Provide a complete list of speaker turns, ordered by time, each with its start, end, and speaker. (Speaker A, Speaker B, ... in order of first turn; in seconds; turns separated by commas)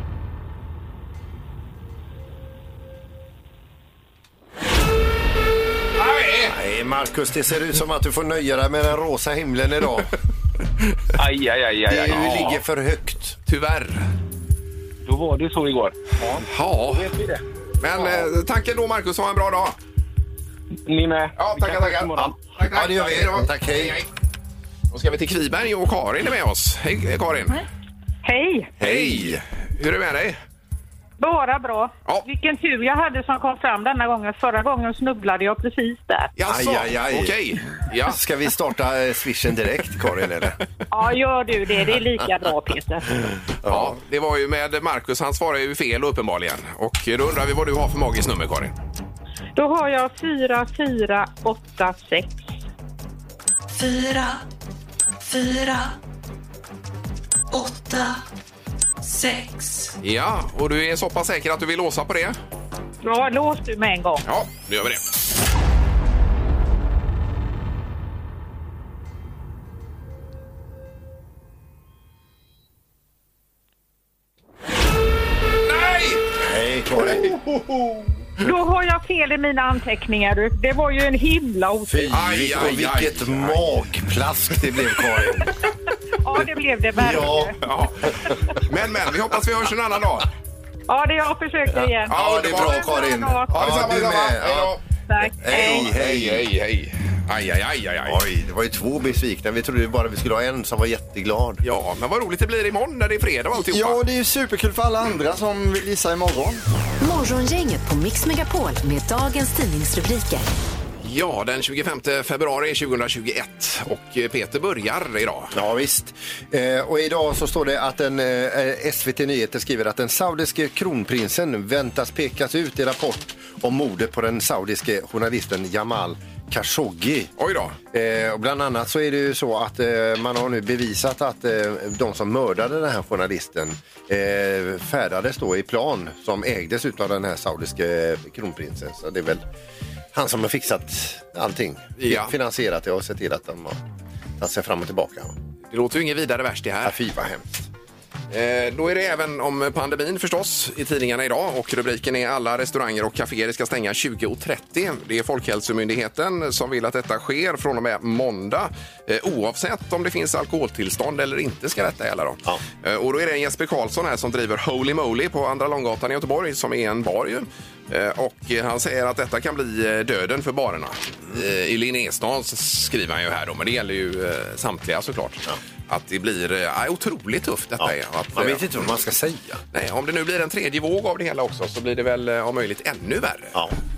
Speaker A: 6.0-6.5, Speaker B: 6.5-10.1, Speaker C: 11.2-12.6, Speaker B: 11.9-13.4, Speaker A: 13.5-14.1, Speaker C: 15.1-17.4, Speaker A: 16.5-17.1, Speaker A: 17.8-19.8, Speaker C: 20.9-22.4, Speaker A: 21.4-24.1, Speaker B: 22.2-24.0, Speaker A: 24.9-27.6, Speaker D: 28.2-28.7, Speaker B: 28.8-29.4, Speaker A: 28.8-30.4, Speaker D: 31.2-36.3, Speaker A: 36.4-38.2, Speaker B: 36.5-37.4, Speaker B: 38.0-40.6, Speaker D: 40.9-43.1, Speaker B: 43.6-44.0, Speaker A: 43.6-48.7, Speaker D: 49.6-52.4, Speaker E: 53.7-54.4, Speaker E: 55.2-56.0, Speaker E: 57.5-58.2, Speaker E: 59.0-60.0, Speaker A: 60.0-62.4, Speaker D: 63.0-64.2, Speaker A: 64.2-65.1, Speaker A: 75.7-76.3, Speaker B: 76.4-77.4, Speaker A: 77.0-78.1, Speaker D: 78.4-82.1, Speaker B: 81.9-85.5, Speaker A: 82.1-83.8, Speaker D: 86.2-87.6, Speaker B: 87.0-87.5, Speaker A: 87.6-90.3, Speaker D: 90.9-93.7, Speaker B: 91.7-94.8, Speaker A: 92.1-92.9, Speaker A: 93.5-94.8, Speaker D: 95.1-95.9, Speaker B: 95.4-96.5, Speaker A: 95.5-98.2, Speaker B: 98.0-101.6, Speaker A: 101.6-104.0, Speaker F: 103.6-106.6, Speaker G: 107.0-110.5, Speaker A: 111.0-115.5, Speaker B: 115.5-127.3, Speaker A: 127.4-127.8, Speaker B: 127.9-139.4, Speaker B: 140.1-143.8, Speaker A: 142.0-142.3, Speaker B: 144.4-145.3, Speaker A: 145.7-147.0, Speaker B: 146.8-147.7, Speaker A: 148.3-178.8, Speaker B: 177.8-179.6, Speaker A: 179.7-183.6